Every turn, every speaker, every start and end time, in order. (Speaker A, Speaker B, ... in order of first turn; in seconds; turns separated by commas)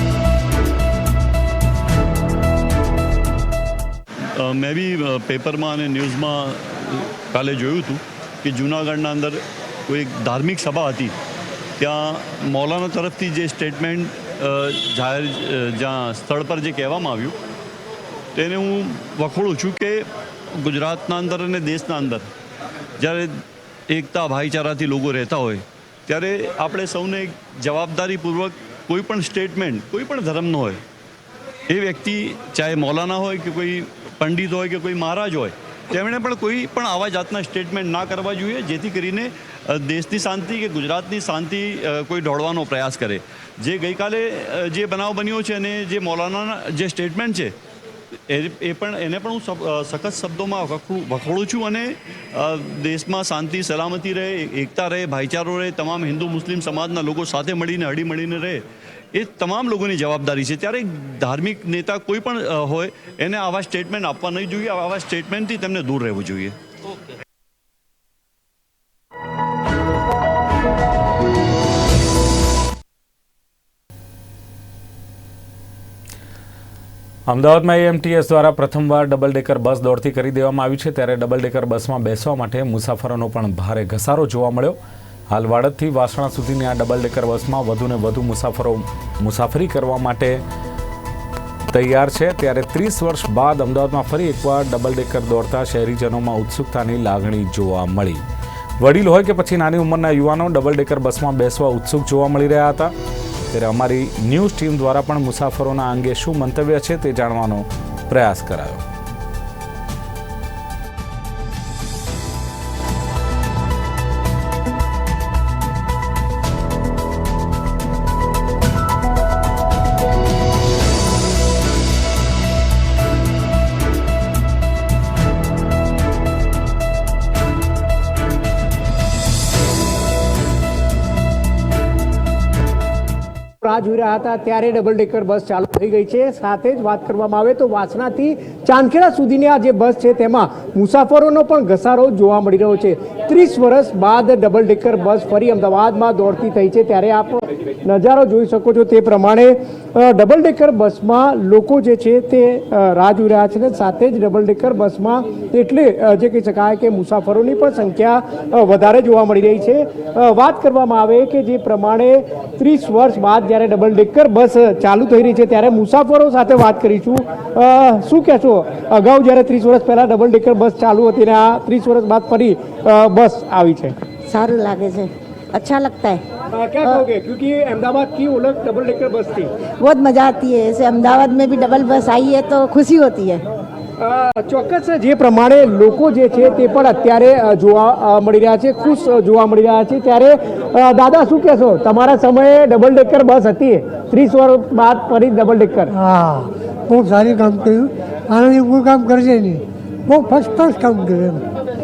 Speaker A: 4.4-11.1, Speaker A: 11.8-17.4, Speaker A: 18.4-22.3, Speaker A: 23.0-30.8, Speaker A: 31.7-47.5, Speaker A: 48.3-66.6, Speaker B: 77.3-84.8, Speaker B: 85.3-90.4, Speaker B: 91.7-98.2, Speaker B: 98.8-102.9, Speaker B: 103.5-108.8, Speaker C: 133.6-173.9, Speaker D: 174.3-176.2, Speaker C: 176.5-179.5, Speaker D: 179.8-183.4, Speaker C: 184.0-195.9, Speaker E: 195.9-201.4